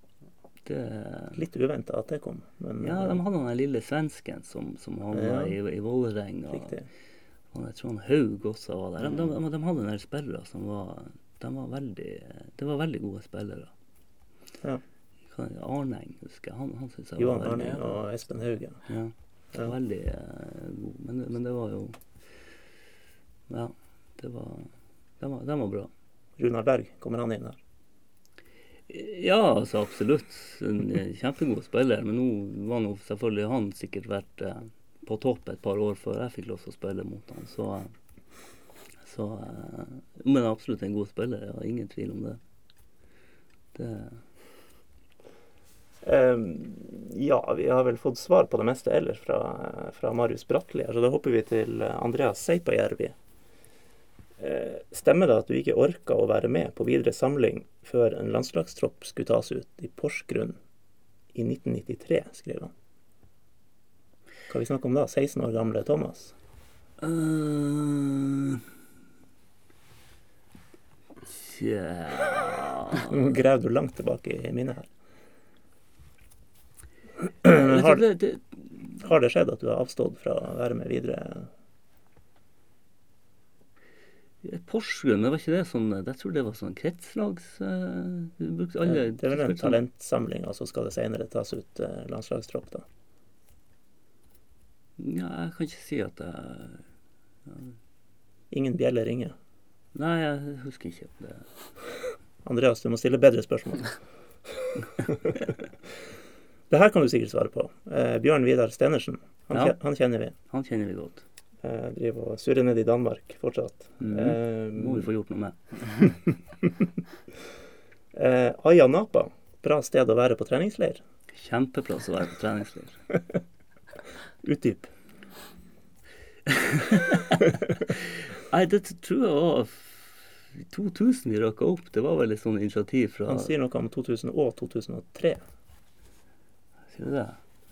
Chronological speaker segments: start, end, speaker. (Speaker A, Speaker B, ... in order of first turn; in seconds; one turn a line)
Speaker A: 0.7-1.4
Speaker B: 1.3-3.2
Speaker A: 2.8-6.8
Speaker B: 5.1-5.5
Speaker B: 6.5-6.9
Speaker A: 7.5-13.7
Speaker A: 15.3-18.0
Speaker B: 17.2-18.8
Speaker A: 18.9-22.0
Speaker A: 23.5-25.9
Speaker B: 26.4-27.6
Speaker A: 28.9-37.9
Speaker A: 39.0-42.4
Speaker A: 43.7-44.2
Speaker B: 46.0-53.1
Speaker B: 54.4-60.6
Speaker B: 61.3-62.7
Speaker B: 64.5-66.3
Speaker A: 67.0-68.6
Speaker A: 71.3-73.1
Speaker B: 73.0-74.9
Speaker B: 77.4-78.0
Speaker A: 77.5-78.9
Speaker B: 79.0-81.5
Speaker A: 84.4-89.8
Speaker B: 88.8-92.8
Speaker A: 95.0-96.8
Speaker A: 97.5-97.7
Speaker B: 98.5-99.3
Speaker A: 99.9-101.5
Speaker B: 102.4-104.0
Speaker B: 106.7-110.3
Speaker A: 110.5-111.2
Speaker B: 111.6-115.1
Speaker A: 114.0-116.0
Speaker B: 118.1-121.0
Speaker A: 121.3-123.0
Speaker B: 124.4-124.9
Speaker A: 126.5-133.5
Speaker B: 133.3-135.4
Speaker A: 136.9-137.4